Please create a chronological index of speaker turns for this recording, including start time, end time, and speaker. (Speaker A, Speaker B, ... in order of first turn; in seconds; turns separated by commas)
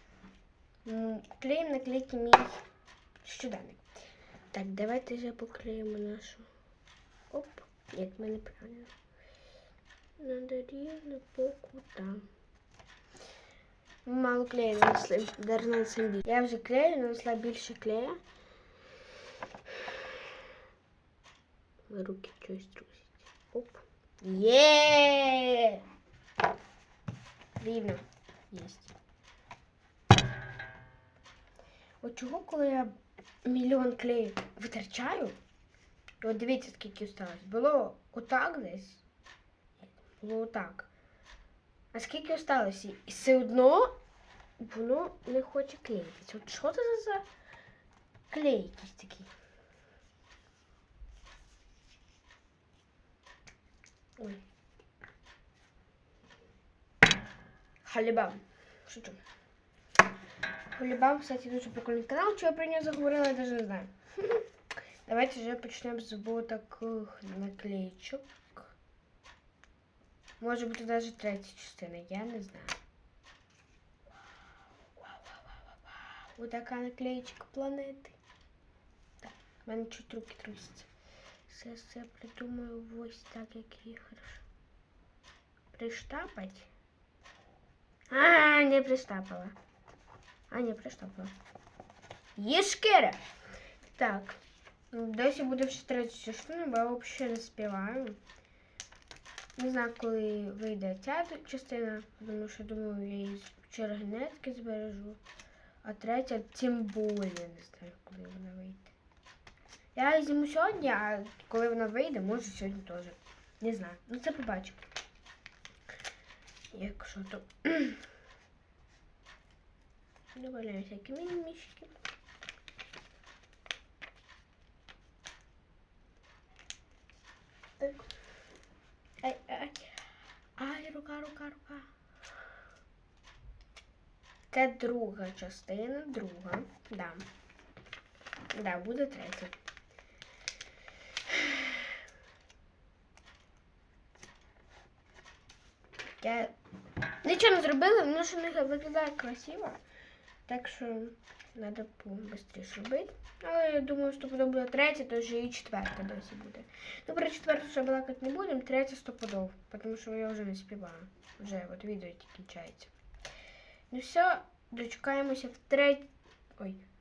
Speaker A: 0.8-2.6, Speaker A: 3.2-6.5, Speaker A: 7.3-8.9, Speaker A: 10.2-12.2, Speaker A: 14.1-18.2, Speaker A: 21.9-25.8, Speaker A: 27.6-28.9, Speaker A: 32.0-35.4, Speaker A: 36.2-39.0, Speaker A: 39.8-40.9, Speaker A: 41.9-44.0, Speaker A: 44.6-47.3, Speaker A: 48.3-49.3, Speaker A: 54.2-54.4, Speaker A: 57.8-59.2, Speaker A: 60.7-64.4, Speaker A: 65.0-68.7, Speaker A: 70.4-72.8, Speaker A: 75.0-78.2, Speaker A: 79.2-80.9, Speaker A: 81.5-84.4, Speaker A: 85.7-86.7, Speaker A: 88.1-89.5, Speaker A: 90.5-91.3, Speaker A: 92.3-93.2, Speaker A: 93.8-94.4, Speaker A: 94.9-98.2, Speaker A: 99.6-105.2, Speaker A: 105.8-108.9, Speaker A: 109.9-114.9, Speaker A: 116.7-118.0, Speaker A: 120.3-121.9, Speaker A: 129.2-130.0, Speaker A: 130.6-131.9, Speaker A: 134.5-137.2, Speaker A: 138.5-139.5, Speaker A: 141.3-141.8, Speaker A: 146.2-146.5, Speaker A: 147.2-149.8, Speaker A: 150.5-162.9, Speaker A: 163.9-166.8